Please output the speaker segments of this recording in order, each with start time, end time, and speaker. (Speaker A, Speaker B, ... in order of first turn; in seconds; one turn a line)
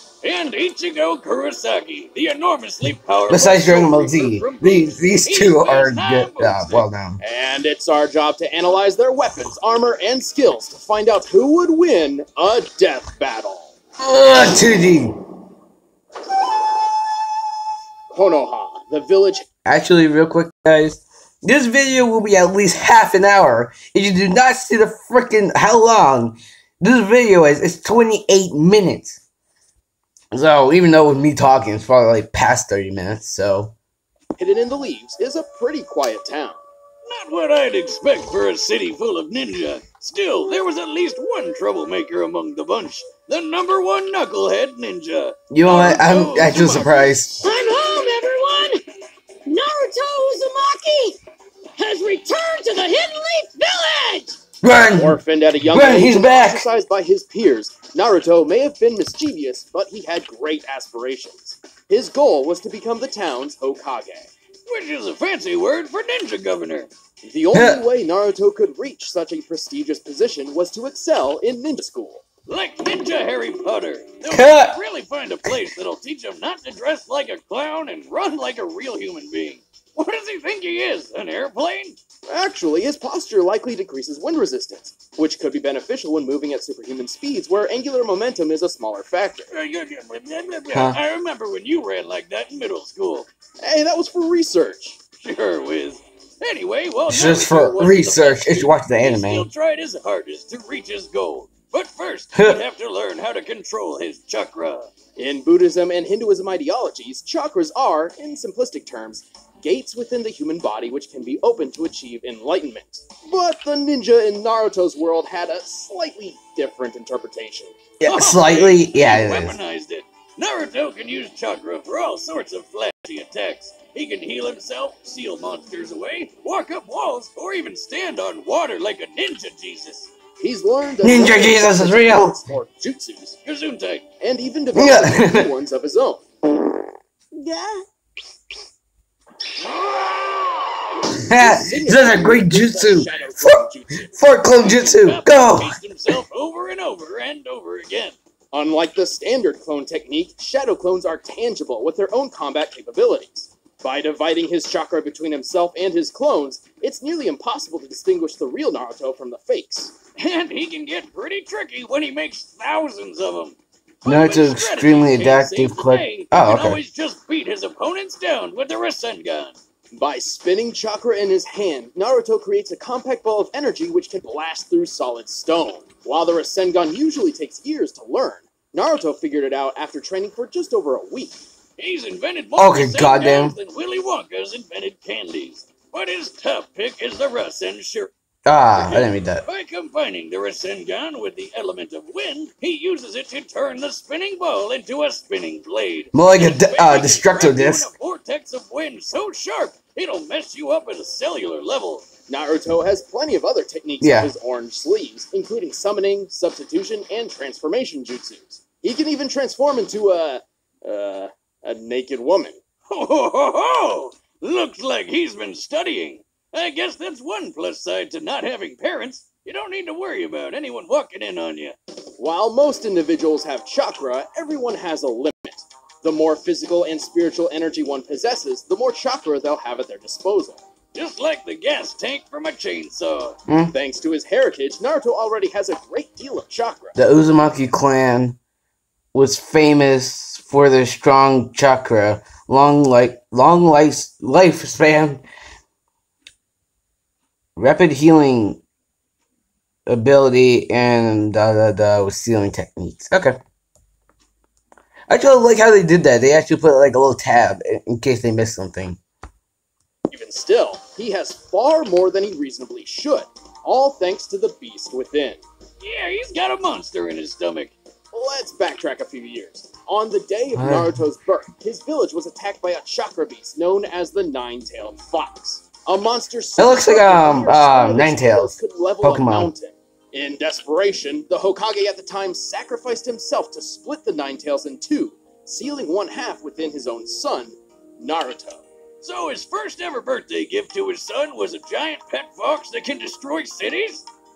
Speaker A: 0.2-6.8
Speaker B: 3.3-7.2
Speaker C: 7.2-13.7
Speaker B: 14.0-15.2
Speaker C: 18.1-19.4
Speaker B: 19.6-29.2
Speaker B: 30.3-33.7
Speaker C: 34.4-36.6
Speaker A: 37.0-47.3
Speaker B: 45.5-47.4
Speaker D: 47.4-48.8
Speaker D: 49.5-51.2
Speaker D: 51.8-54.4
Speaker B: 54.6-56.6
Speaker C: 55.0-64.3
Speaker A: 64.7-66.9
Speaker C: 67.2-72.2
Speaker B: 67.5-67.8
Speaker A: 72.5-82.0
Speaker B: 74.3-74.8
Speaker C: 82.3-89.5
Speaker A: 89.5-93.3
Speaker B: 90.7-91.0
Speaker C: 93.6-95.0
Speaker A: 95.2-104.9
Speaker B: 97.1-99.5
Speaker B: 102.3-102.6
Speaker C: 105.2-117.7
Speaker B: 118.0-119.6
Speaker A: 118.0-130.1
Speaker C: 130.4-133.4
Speaker B: 131.0-132.4
Speaker A: 133.4-134.1
Speaker C: 134.2-136.2
Speaker B: 134.7-135.5
Speaker D: 137.3-137.8
Speaker D: 139.7-140.8
Speaker B: 141.1-145.7
Speaker C: 141.2-144.2
Speaker A: 144.5-148.2
Speaker C: 148.5-159.9
Speaker A: 160.2-169.6
Speaker B: 164.1-166.8
Speaker C: 169.9-181.4
Speaker A: 181.8-188.1
Speaker B: 182.6-183.6
Speaker B: 188.4-189.4
Speaker A: 188.7-202.1
Speaker B: 196.1-197.9
Speaker C: 202.3-212.6
Speaker B: 204.0-204.3
Speaker A: 212.9-221.8
Speaker C: 222.2-230.6
Speaker A: 230.9-233.4
Speaker B: 233.5-233.7
Speaker C: 233.7-237.0
Speaker B: 236.9-238.4
Speaker B: 239.1-245.2
Speaker B: 247.6-248.6
Speaker B: 249.9-253.4
Speaker B: 255.1-259.0
Speaker C: 260.1-265.4
Speaker A: 265.8-267.7
Speaker C: 268.1-288.6
Speaker B: 270.6-271.0
Speaker B: 276.6-279.5
Speaker A: 289.0-294.1